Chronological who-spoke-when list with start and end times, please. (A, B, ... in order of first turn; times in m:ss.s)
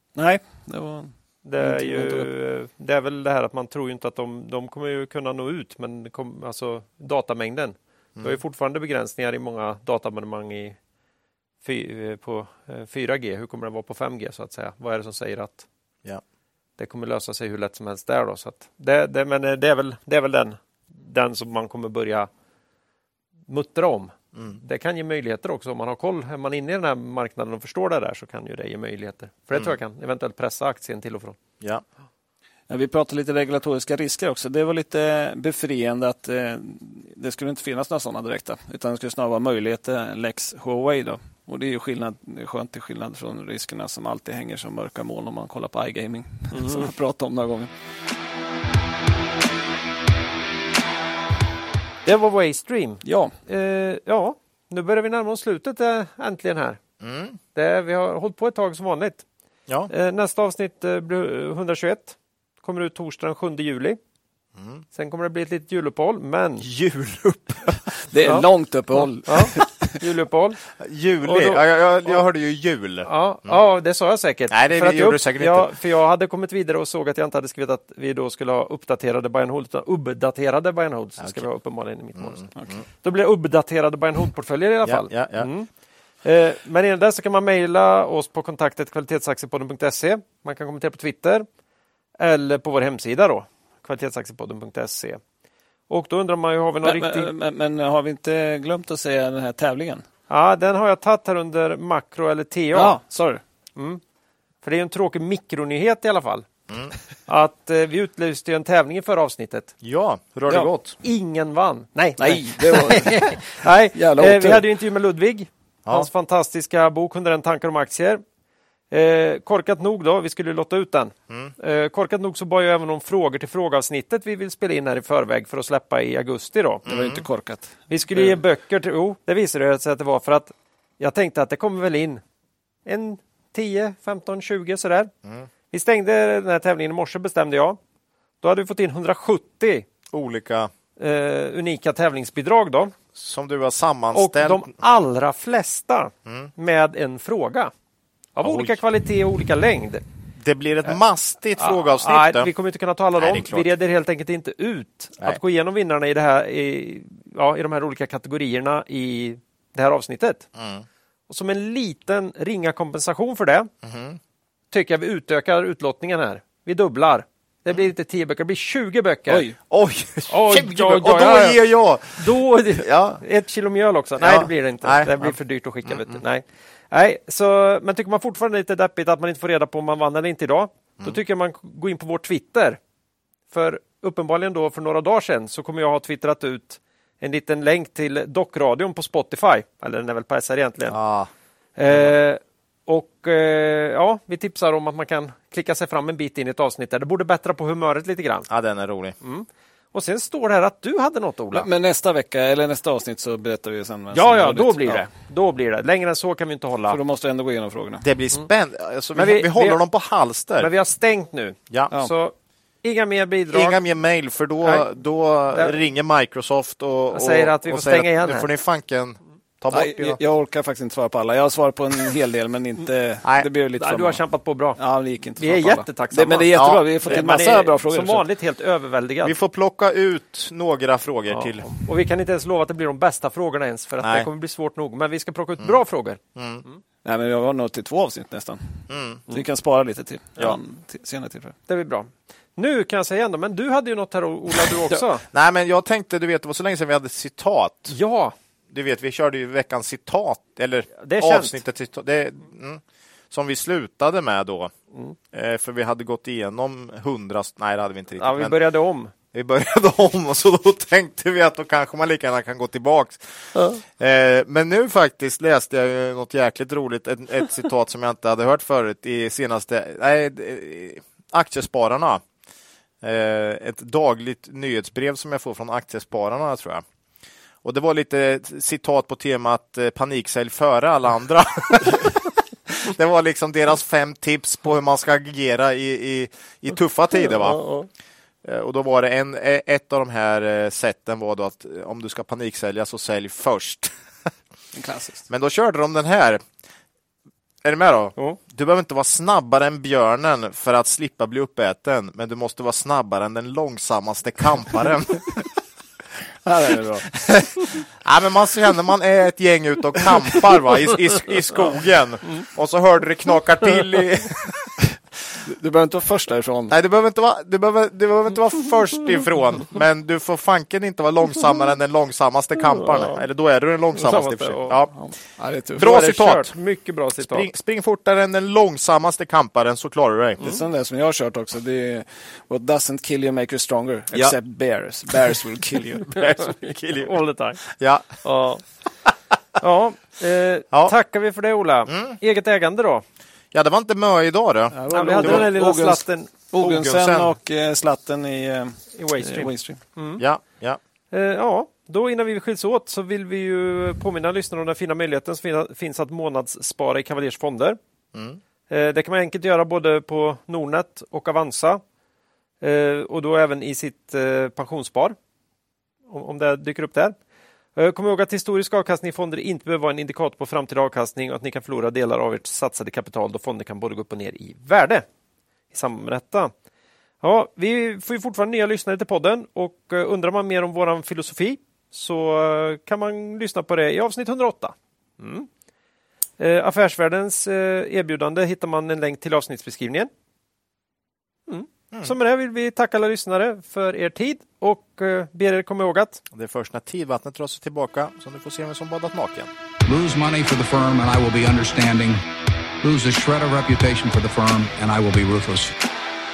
0:00.2-0:02.3 A
0:01.4-0:10.8 B
0:11.6-0:15.6 B
0:16.8-0:22.3 B
0:23.5-0:31.4 B
0:32.7-0:47.7 A
0:46.5-0:46.9 B
0:52.0-0:56.8 B
0:53.0-0:53.4 A
0:57.0-0:57.4 C
0:57.6-0:59.2 B
0:59.9-1:04.0 B
1:04.6-1:04.8 C
1:04.9-1:06.7 B
1:06.6-1:08.0 C
1:08.1-1:10.0 A
1:09.2-1:10.6 B
1:10.8-1:13.6 C
1:11.2-1:12.2 B
1:13.1-1:25.7 B
1:14.5-1:15.7 C
1:21.2-1:21.4 C
1:22.2-1:22.8 C
1:24.8-1:25.5 C
1:26.2-1:31.5 B
1:32.2-1:35.2 B
1:35.9-1:37.3 B
1:36.8-1:40.0 A
1:40.3-1:43.0 B
1:42.7-1:43.4 A
1:43.8-1:44.0 B
1:44.6-1:46.5 B
1:47.3-1:49.7 B
1:49.8-1:51.0 C
1:51.0-1:58.2 B
1:52.2-1:53.4 A
1:53.9-1:54.6 A
1:58.9-2:06.9 B
2:06.9-2:07.2 C
2:06.9-2:08.4 A
2:07.9-2:12.2 B
2:12.8-2:15.1 B
2:15.7-2:17.8 B
2:18.4-2:19.9 B
2:20.1-2:20.7 C
2:21.0-2:23.0 B
2:23.2-2:24.7 C
2:24.1-2:27.7 B
2:28.4-2:30.0 B
2:28.4-2:28.8 C
2:30.4-2:32.5 C
2:31.6-2:40.5 B
2:33.2-2:33.7 C
2:40.6-2:40.8 C
2:41.3-2:43.7 B
2:43.8-2:44.2 C
2:44.7-2:49.5 B
2:49.3-2:49.6 A
2:49.7-2:53.2 C
2:50.3-3:02.8 B
2:54.2-2:56.2 C
3:03.5-3:11.0 B
3:10.9-3:11.3 C
3:11.8-3:18.5 B
3:18.5-3:19.2 C
3:19.2-3:21.7 B
3:21.5-3:25.1 A
3:24.1-3:27.0 B
3:26.9-3:28.0 A
3:28.0-3:30.7 C
3:29.2-3:29.8 B
3:30.6-3:33.8 B
3:33.5-3:40.2 C
3:37.1-3:38.5 B
3:39.7-3:44.2 A
3:43.8-3:44.8 B
3:44.8-3:48.2 A
3:45.4-3:49.4 B
3:46.5-3:46.8 C
3:49.2-3:51.7 C
3:51.3-3:56.8 B
3:54.0-3:54.3 C
3:56.4-3:56.6 C
3:57.0-4:01.6 A
3:58.9-3:59.2 C
4:01.7-4:05.2 B
4:05.3-4:08.0 C
4:07.9-4:08.3 B
4:08.7-4:14.7 C
4:11.0-4:11.6 B
4:15.3-4:18.6 C
4:18.2-4:19.1 B
4:19.3-4:32.2 C
4:33.0-4:36.8 C
4:37.6-4:47.6 C
4:47.4-4:47.9 B
4:48.4-4:53.9 C
4:54.7-4:55.3 A
4:55.3-4:56.4 C
4:57.6-5:05.5 C
5:06.4-5:07.1 A
5:07.1-5:14.8 C
5:15.5-5:16.8 A
5:16.7-5:24.9 C
5:22.7-5:23.2 B
5:24.0-5:24.8 B
5:24.9-5:25.9 A
5:25.8-5:26.5 C
5:25.8-5:27.5 B
5:27.2-5:30.6 C
5:30.4-5:36.1 A
5:36.0-5:38.2 C
5:36.2-5:37.6 B
5:38.2-5:38.6 B
5:39.6-5:43.0 B
5:41.9-5:42.2 C
5:43.5-5:45.5 C
5:44.7-5:49.8 A
5:44.9-5:46.3 B
5:46.6-5:47.3 C
5:49.0-5:50.2 B
5:50.2-5:50.8 C
5:51.1-5:57.8 B
5:58.1-5:58.4 C
5:58.7-6:01.8 B
6:02.6-6:05.2 B
6:06.1-6:07.2 B
6:07.8-6:15.0 B
6:15.7-6:16.5 B
6:17.2-6:25.5 B
6:26.4-6:30.1 B
6:31.5-6:36.2 B
6:36.3-6:39.5 C
6:39.8-6:42.2 D
6:42.8-6:45.8 D